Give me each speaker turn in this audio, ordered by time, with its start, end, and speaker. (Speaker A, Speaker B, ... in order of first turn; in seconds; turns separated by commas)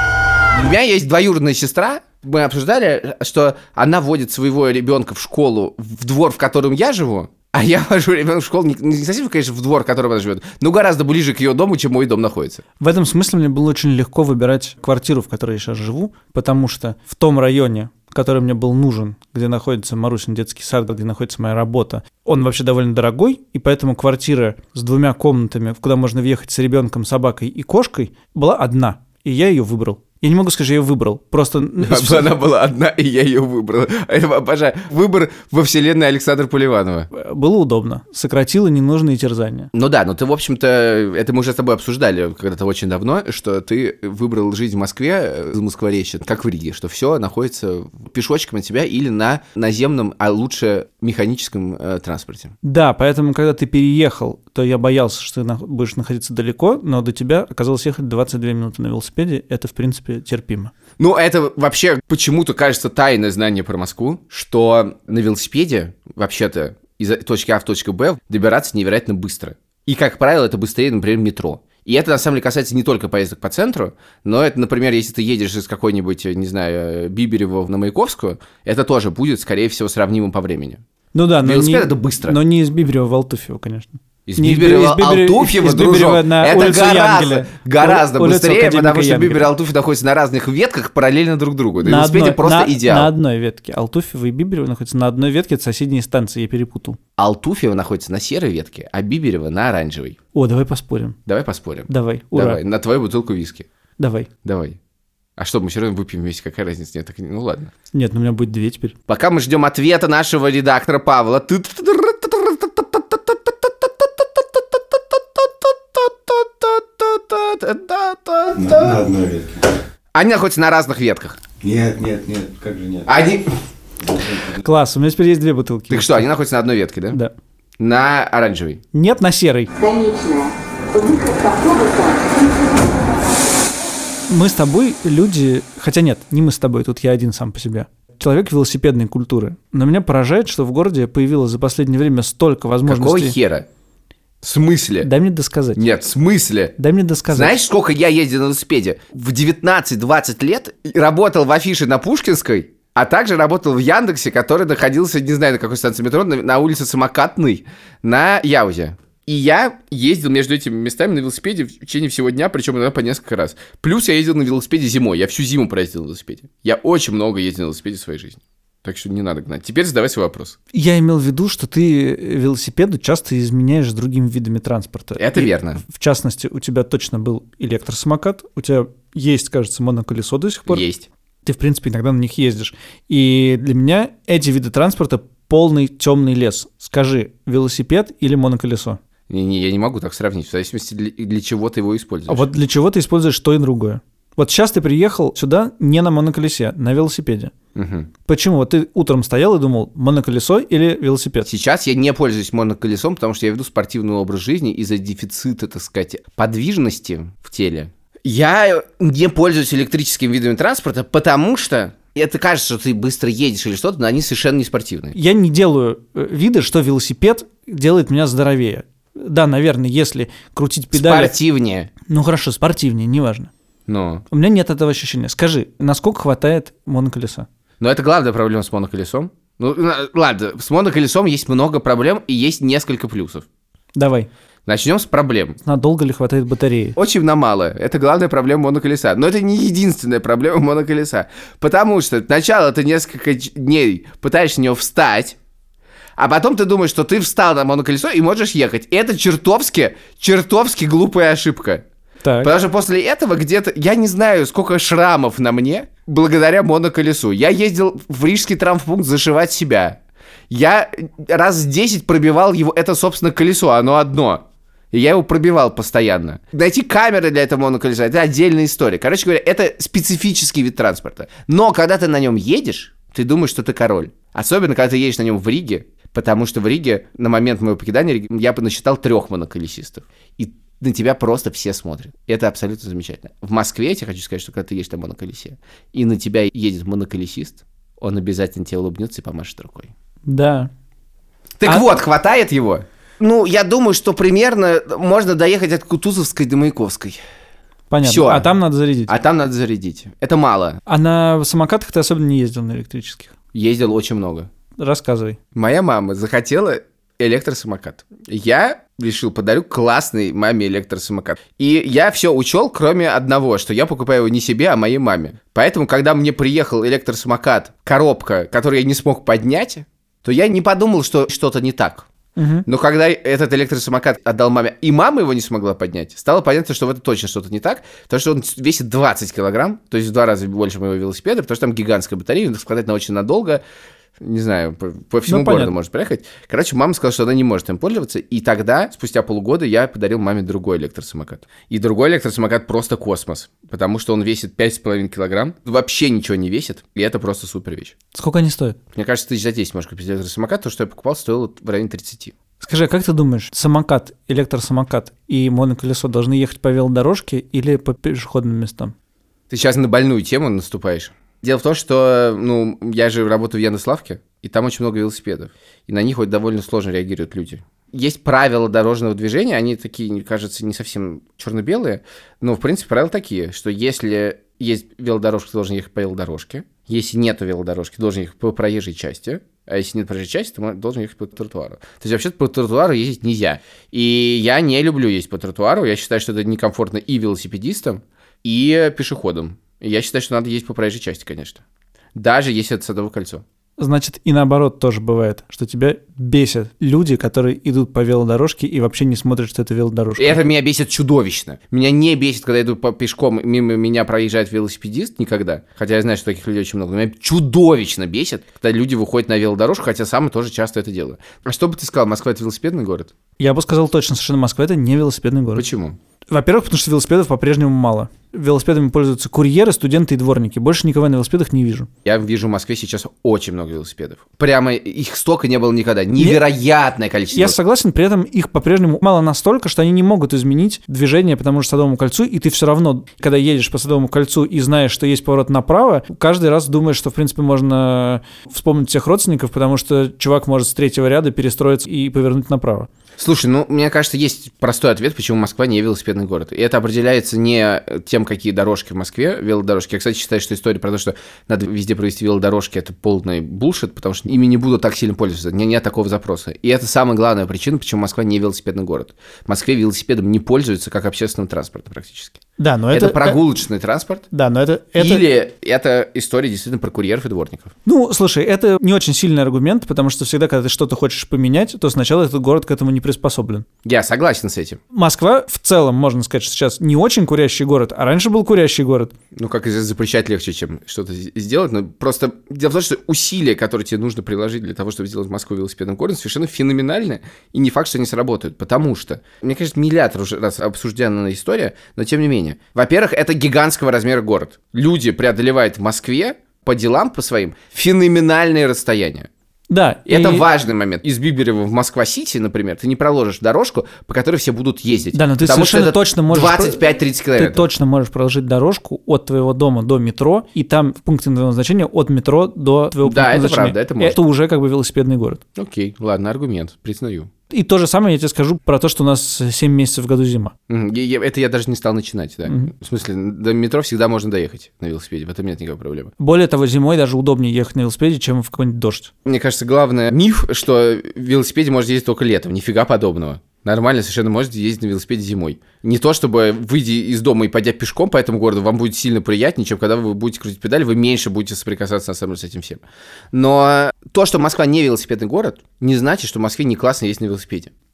Speaker A: 0.5-12.6, Speaker B: 12.8-32.3, Speaker A: 31.8-37.1, Speaker B: 37.1-39.7, Speaker A: 39.7-52.5, Speaker B: 52.6-60.7, Speaker A: 61.0-80.8, Speaker B: 81.1-89.5, Speaker A: 81.4-82.4, Speaker A: 84.2-93.1, Speaker B: 91.8-97.0, Speaker A: 97.2-100.2, Speaker B: 100.3-101.2, Speaker A: 101.2-103.7, Speaker B: 101.9-102.6, Speaker B: 104.0-104.3, Speaker A: 104.4-104.8, Speaker A: 105.4-107.7, Speaker B: 107.9-108.9, Speaker A: 109.1-119.0, Speaker C: 118.5-119.6, Speaker A: 120.1-121.4, Speaker C: 121.6-123.1, Speaker A: 123.1-123.4, Speaker C: 124.0-124.6, Speaker B: 124.6-126.2, Speaker A: 125.9-127.2, Speaker A: 127.8-128.8, Speaker B: 128.9-129.7, Speaker B: 134.3-143.4, Speaker A: 142.8-143.7, Speaker A: 144.4-145.1, Speaker B: 145.0-145.9, Speaker A: 145.8-146.7, Speaker B: 146.8-147.5, Speaker A: 147.3-170.6, Speaker B: 170.7-180.8, Speaker A: 175.2-175.8, Speaker A: 180.7-181.1, Speaker B: 181.4-189.0, Speaker A: 189.3-192.5, Speaker B: 192.3-197.5, Speaker A: 197.7-198.1, Speaker B: 198.3-201.5, Speaker A: 201.4-215.1, Speaker B: 215.1-221.3, Speaker A: 220.9-221.9, Speaker B: 222.1-223.5, Speaker A: 223.9-224.2, Speaker B: 224.3-227.5, Speaker A: 227.8-233.4, Speaker B: 234.0-234.3, Speaker A: 234.7-235.6, Speaker B: 235.6-237.0, Speaker A: 236.9-245.4, Speaker A: 246.2-251.8, Speaker B: 252.2-252.5, Speaker A: 252.4-260.0, Speaker A: 260.5-289.9, Speaker B: 290.3-290.7, Speaker A: 291.6-297.2, Speaker B: 297.9-299.1, Speaker A: 298.0-298.5, Speaker A: 299.1-300.8, Speaker B: 300.9-303.3, Speaker A: 303.5-304.5, Speaker B: 304.8-305.4, Speaker A: 305.5-322.1, Speaker B: 322.4-322.7, Speaker A: 322.6-333.6, Speaker A: 334.2-347.9, Speaker B: 335.2-335.7, Speaker B: 348.1-348.8, Speaker A: 348.9-352.3, Speaker B: 352.6-358.9, Speaker A: 359.5-391.6, Speaker A: 392.1-393.4, Speaker B: 393.8-400.4, Speaker A: 400.2-413.1, Speaker B: 413.4-415.7, Speaker A: 415.5-416.0, Speaker B: 416.3-421.9, Speaker A: 422.0-427.6, Speaker B: 427.3-442.9, Speaker A: 443.2-462.4, Speaker B: 462.6-463.4, Speaker A: 462.9-464.2, Speaker B: 464.3-465.2, Speaker A: 465.0-467.7, Speaker B: 467.9-473.6, Speaker A: 473.8-474.8, Speaker B: 474.9-479.1, Speaker A: 479.3-499.3, Speaker B: 499.7-500.5, Speaker A: 500.1-507.7, Speaker B: 505.1-506.8, Speaker B: 507.4-515.4, Speaker A: 513.0-514.2, Speaker A: 515.5-517.3, Speaker B: 517.5-520.5, Speaker A: 520.7-526.1, Speaker B: 522.5-522.7, Speaker B: 526.2-529.1, Speaker A: 529.2-547.7